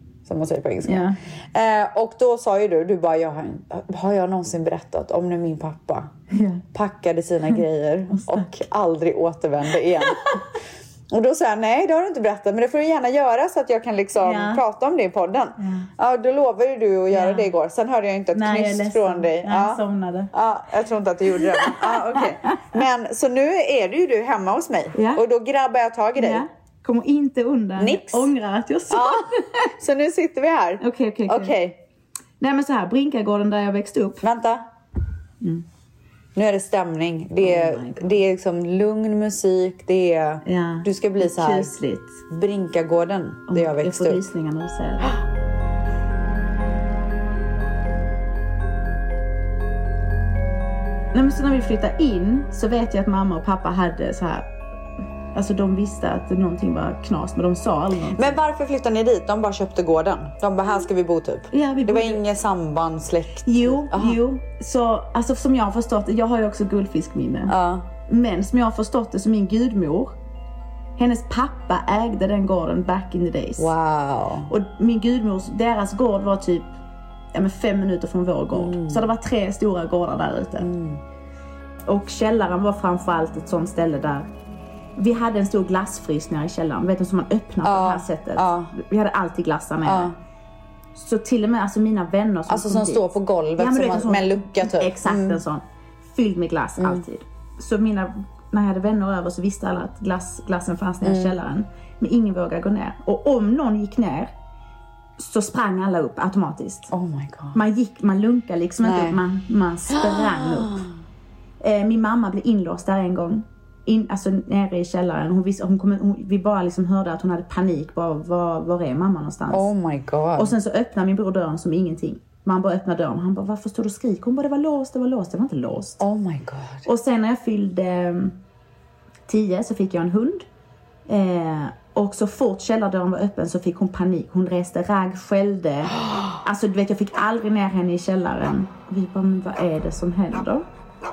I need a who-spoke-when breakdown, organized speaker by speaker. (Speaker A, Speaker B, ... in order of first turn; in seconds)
Speaker A: 0.2-6.2, 6.7-10.5, 11.1-19.8, 20.3-26.4, 27.8-28.3, 28.9-29.2, 29.8-31.8, 34.2-34.7, 36.4-41.7, 42.3-44.2, 58.2-64.2, 67.5-67.9, 73.6-74.5, 78.5-79.0, 80.6-81.0, 87.6-88.7, 89.8-90.2, 92.5-95.4, 101.0-101.3, 106.9-107.6, 108.8-109.2, 109.9-110.8, 119.5-120.5, 126.0-126.8
Speaker B: 0.8-1.2, 6.3-6.6, 14.2-14.6, 15.6-15.9, 17.1-17.5, 18.3-20.3, 24.9-25.2, 26.2-29.6, 30.8-31.6, 32.4-34.2, 37.4-38.1, 40.5-42.2, 43.5-45.2, 51.1-54.5, 55.3-58.4, 61.5-62.2, 63.4-67.5, 68.1-70.1, 71.0-73.7, 74.5-76.7, 77.3-80.7, 81.9-84.3, 85.0-90.1, 90.9-104.3, 105.2-106.9, 107.5-110.8, 111.6-119.7, 120.3-126.0, 126.9-128.4, 129.3-130.5, 131.1-140.7